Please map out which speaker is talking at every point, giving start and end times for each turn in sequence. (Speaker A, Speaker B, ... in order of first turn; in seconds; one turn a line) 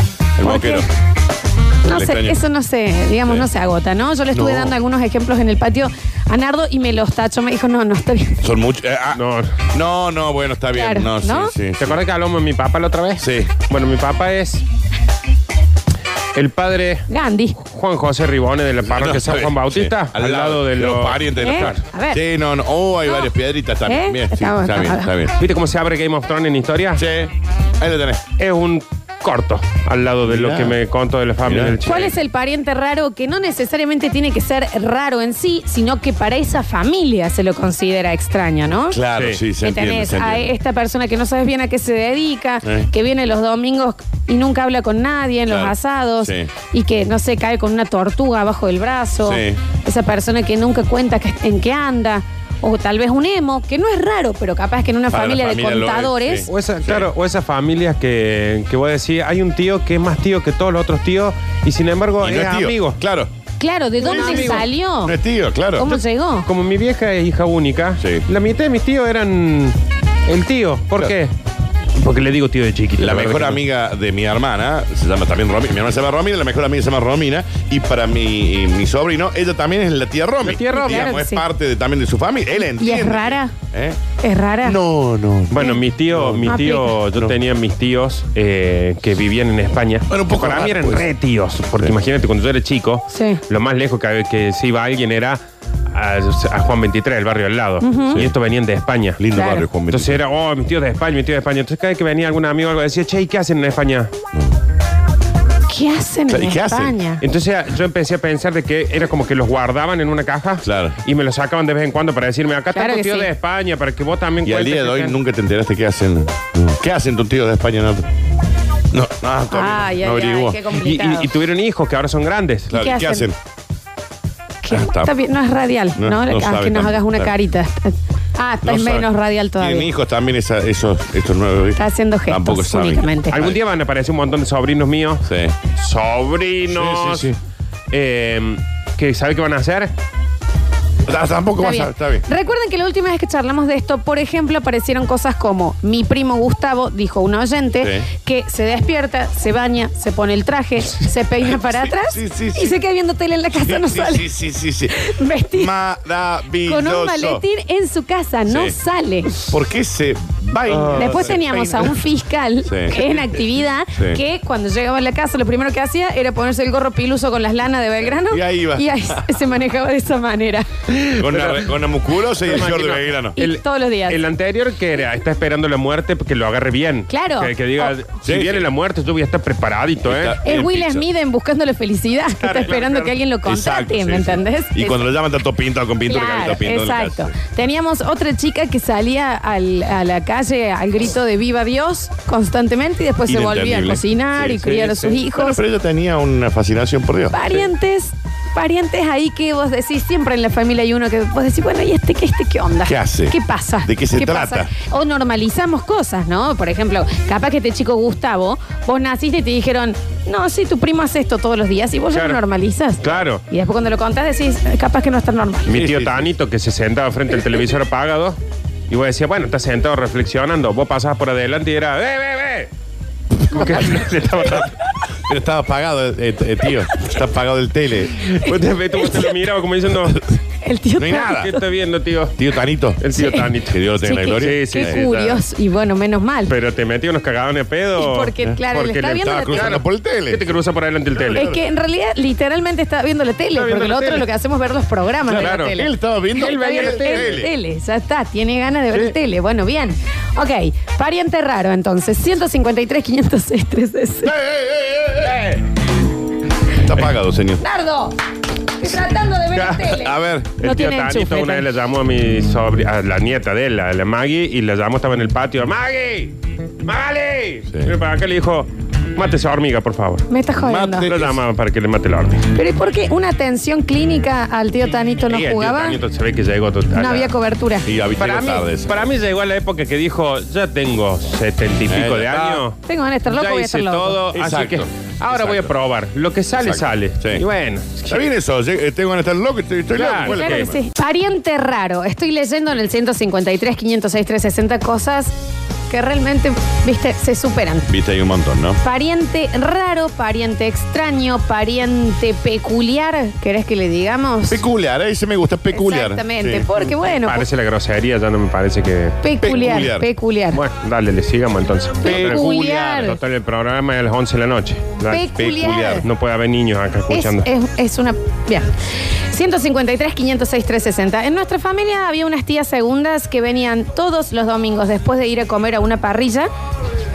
Speaker A: 0.4-0.9
Speaker B: 0.4-0.8
Speaker A: 1.9-2.4
Speaker B: 1.9-8.4
Speaker A: 4.3-4.8
Speaker A: 8.4-12.0
Speaker C: 9.2-9.5
Speaker B: 10.8-11.5
Speaker C: 11.8-14.6
Speaker A: 13.2-13.5
Speaker C: 16.4-17.1
Speaker B: 17.1-17.6
Speaker C: 17.6-21.8
Speaker A: 18.9-25.4
Speaker B: 21.4-22.2
Speaker B: 23.9-25.1
Speaker C: 25.4-27.0
Speaker A: 27.0-28.2
Speaker C: 28.4-32.2
Speaker A: 30.2-30.8
Speaker A: 31.4-31.8
Speaker B: 31.8-39.0
Speaker A: 38.9-40.5
Speaker C: 39.1-39.4
Speaker B: 39.6-56.5
Speaker A: 42.6-42.9
Speaker A: 45.5-46.5
Speaker A: 49.2-49.6
Speaker A: 55.1-57.1
Speaker C: 56.5-63.0
Speaker A: 62.2-63.3
Speaker B: 63.6-65.2
Speaker C: 64.0-64.7
Speaker A: 64.0-66.0
Speaker B: 65.8-66.5
Speaker C: 66.5-69.8
Speaker C: 70.3-71.3
Speaker C: 72.0-73.6
Speaker A: 73.0-84.0
Speaker C: 80.4-81.1
Speaker B: 80.7-81.4
Speaker B: 82.6-83.5
Speaker B: 84.2-84.8
Speaker A: 84.6-86.6
Speaker C: 85.5-99.3
Speaker B: 85.5-85.8
Speaker B: 86.5-86.9
Speaker A: 90.1-91.1
Speaker B: 93.1-93.4
Speaker B: 97.8-98.2
Speaker A: 99.2-100.2
Speaker B: 99.4-99.6
Speaker C: 99.9-104.1
Speaker B: 105.7-107.2
Speaker A: 106.3-107.0
Speaker C: 107.2-115.2
Speaker A: 110.6-111.0
Speaker B: 112.7-113.3
Speaker A: 114.4-118.1
Speaker A: 118.9-120.6
Speaker B: 119.5-121.3
Speaker C: 120.8-122.7
Speaker A: 122.7-123.3
Speaker B: 122.7-123.3
Speaker B: 124.6-129.9
Speaker A: 124.7-125.1
Speaker A: 126.0-127.3
Speaker A: 128.6-133.6
Speaker B: 131.8-133.4
Speaker C: 133.3-135.2
Speaker A: 135.2-135.6
Speaker C: 135.8-137.3
Speaker A: 136.7-137.4
Speaker C: 137.9-139.9
Speaker A: 141.1-142.2
Speaker B: 141.6-154.3
Speaker A: 147.8-148.1
Speaker A: 151.6-152.8
Speaker A: 153.5-155.0
Speaker B: 154.9-155.7
Speaker A: 155.5-157.4
Speaker B: 156.7-159.4
Speaker A: 158.5-158.8
Speaker A: 159.5-161.9
Speaker C: 160.8-161.0
Speaker B: 161.0-170.7
Speaker A: 162.6-163.2
Speaker A: 164.0-164.2
Speaker A: 168.3-169.2
Speaker C: 171.0-171.7
Speaker A: 171.2-173.3
Speaker C: 172.4-180.4
Speaker B: 173.4-174.2
Speaker B: 177.1-177.9
Speaker A: 178.2-178.7
Speaker A: 180.0-181.1
Speaker B: 180.4-185.1
Speaker C: 182.5-183.1
Speaker A: 183.4-187.3
Speaker B: 186.1-195.6
Speaker A: 193.3-194.8
Speaker C: 194.6-195.2
Speaker A: 195.3-197.6
Speaker B: 197.3-215.7
Speaker A: 202.9-204.7
Speaker C: 212.1-212.4
Speaker C: 213.0-213.4
Speaker C: 215.7-218.4
Speaker A: 215.7-216.3
Speaker C: 218.9-222.7
Speaker C: 223.5-224.8
Speaker A: 223.5-223.9
Speaker A: 225.3-228.4
Speaker C: 228.4-230.2
Speaker B: 230.6-231.5
Speaker A: 231.0-231.5
Speaker C: 231.4-232.4
Speaker A: 232.4-233.0
Speaker C: 233.0-233.7
Speaker B: 233.2-233.5
Speaker A: 233.6-235.0
Speaker B: 234.0-236.5
Speaker C: 234.4-235.4
Speaker C: 236.5-241.5
Speaker B: 238.0-239.8
Speaker A: 239.2-240.5
Speaker A: 241.2-241.6
Speaker B: 241.3-254.3
Speaker C: 243.5-244.3
Speaker A: 245.3-247.5
Speaker C: 245.3-245.7
Speaker C: 246.4-247.4
Speaker A: 254.2-255.6
Speaker A: 256.8-257.6
Speaker B: 257.6-258.1
Speaker B: 258.8-261.6
Speaker A: 259.6-260.6
Speaker C: 260.6-270.3
Speaker B: 270.3-271.1
Speaker A: 270.6-271.4
Speaker C: 271.1-272.4
Speaker B: 272.6-276.0
Speaker C: 275.3-277.3
Speaker B: 277.0-277.9
Speaker A: 277.9-279.1
Speaker C: 278.2-288.2
Speaker A: 281.9-282.6
Speaker B: 282.9-284.2
Speaker A: 284.3-285.7
Speaker A: 286.6-287.4
Speaker A: 288.1-290.8
Speaker C: 290.0-290.7
Speaker B: 290.1-295.3
Speaker B: 295.9-297.9
Speaker A: 297.9-298.8
Speaker B: 298.8-304.6
Speaker A: 304.5-306.7
Speaker B: 305.7-307.4
Speaker C: 307.2-309.2
Speaker B: 309.2-310.6
Speaker A: 309.4-310.1
Speaker C: 310.5-315.3
Speaker B: 312.0-313.2
Speaker A: 312.1-312.8
Speaker B: 315.1-316.1
Speaker A: 315.4-316.1
Speaker C: 316.0-317.5
Speaker B: 317.1-318.7
Speaker B: 319.3-326.5